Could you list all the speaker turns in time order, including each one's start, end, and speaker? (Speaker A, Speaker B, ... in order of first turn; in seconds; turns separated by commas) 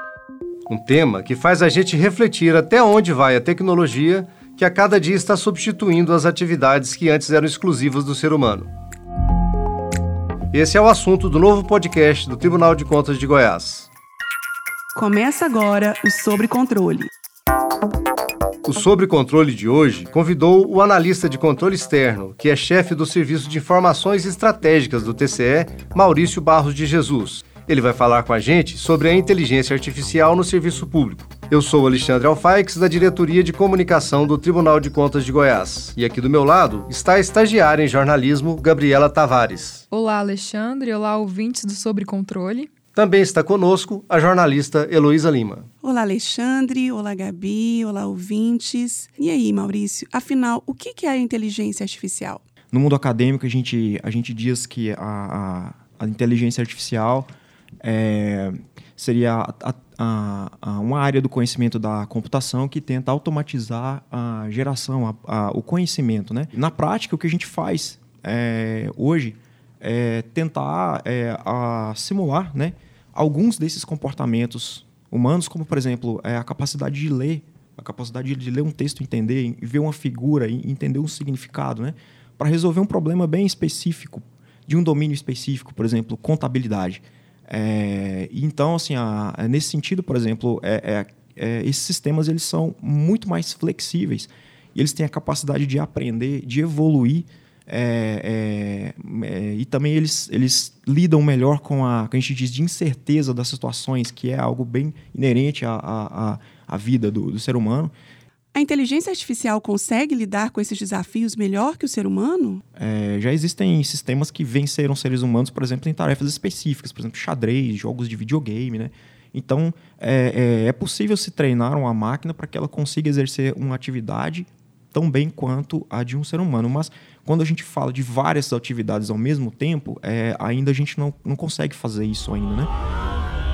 Speaker A: 0.7-8.7, Speaker A: 10.5-13.9, Speaker B: 14.9-17.1, Speaker A: 18.6-39.8, Speaker C: 39.9-42.7, Speaker A: 42.9-45.7, Speaker B: 45.8-52.4, Speaker D: 52.7-57.3, Speaker D: 57.8-107.9, Speaker B: 108.5-112.6, Speaker D: 112.8-132.7